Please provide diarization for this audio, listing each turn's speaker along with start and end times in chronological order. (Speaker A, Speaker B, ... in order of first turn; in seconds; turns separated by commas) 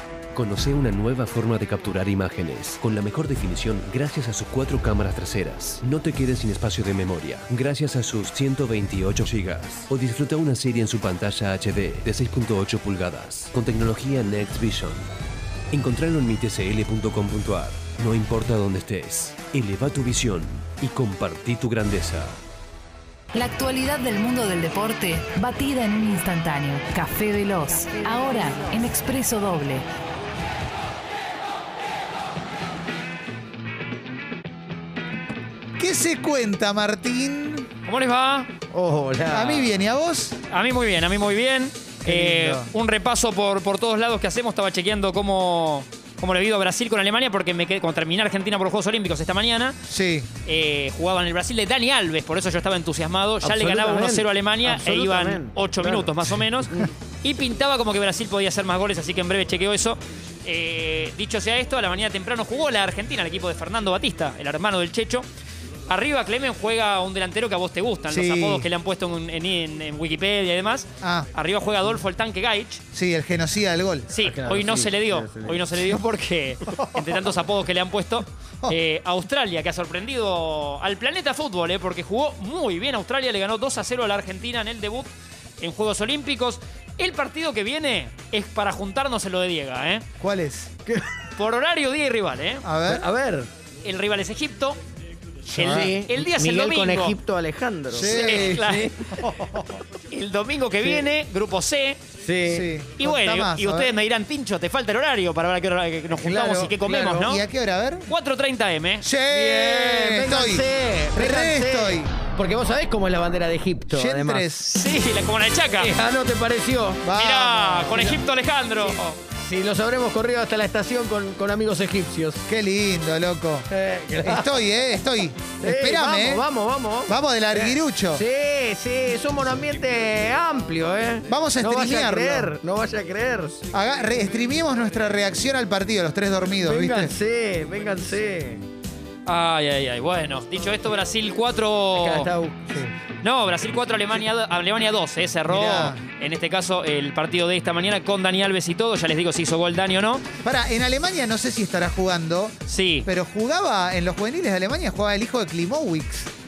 Speaker A: 0.3-15.1, Speaker A: 15.7-22.4, Speaker B: 23.3-29.9, Speaker C: 35.8-37.7, Speaker D: 37.9-38.5, Speaker E: 38.7-39.7, Speaker C: 39.3-40.4, Speaker D: 40.5-49.8, Speaker C: 42.0-42.7, Speaker C: 49.9-50.3, Speaker D: 50.4-65.2, Speaker E: 53.4-56.1, Speaker D: 65.9-72.8, Speaker C: 68.1-68.7, Speaker C: 71.0-71.3, Speaker C: 72.9-74.1, Speaker D: 74.1-90.0, Speaker E: 74.2-75.7, Speaker C: 76.7-77.2, Speaker C: 90.2-90.7, Speaker E: 90.9-91.1, Speaker D: 91.3-92.7, Speaker C: 92.6-93.1, Speaker E: 92.8-93.5, Speaker D: 93.8-94.8, Speaker D: 95.4-97.2, Speaker C: 95.6-96.0, Speaker E: 95.6-99.0, Speaker C: 97.9-98.6, Speaker D: 97.9-99.2, Speaker C: 99.2-99.8, Speaker D: 100.1-102.0, Speaker E: 100.8-101.1, Speaker E: 102.2-102.7, Speaker C: 102.4-103.9, Speaker D: 103.0-107.4, Speaker E: 106.1-107.3, Speaker C: 106.3-108.1, Speaker D: 108.1-109.1, Speaker C: 109.0-112.1, Speaker E: 109.3-114.5, Speaker C: 113.9-114.6, Speaker D: 114.6-116.0, Speaker E: 115.8-117.1, Speaker C: 117.0-118.1, Speaker D: 117.1-119.2, Speaker E: 117.8-118.2, Speaker E: 119.3-122.4, Speaker C: 122.5-123.7, Speaker E: 123.7-124.6, Speaker C: 124.2-126.4, Speaker E: 125.6-133.6, Speaker C: 127.1-128.2, Speaker C: 131.3-132.5, Speaker C: 133.7-137.1, Speaker E: 136.6-138.6, Speaker D: 139.2-142.3, Speaker E: 141.9-142.7, Speaker D: 143.2-150.2, Speaker C: 145.5-146.0, Speaker C: 150.4-156.3, Speaker D: 152.7-153.1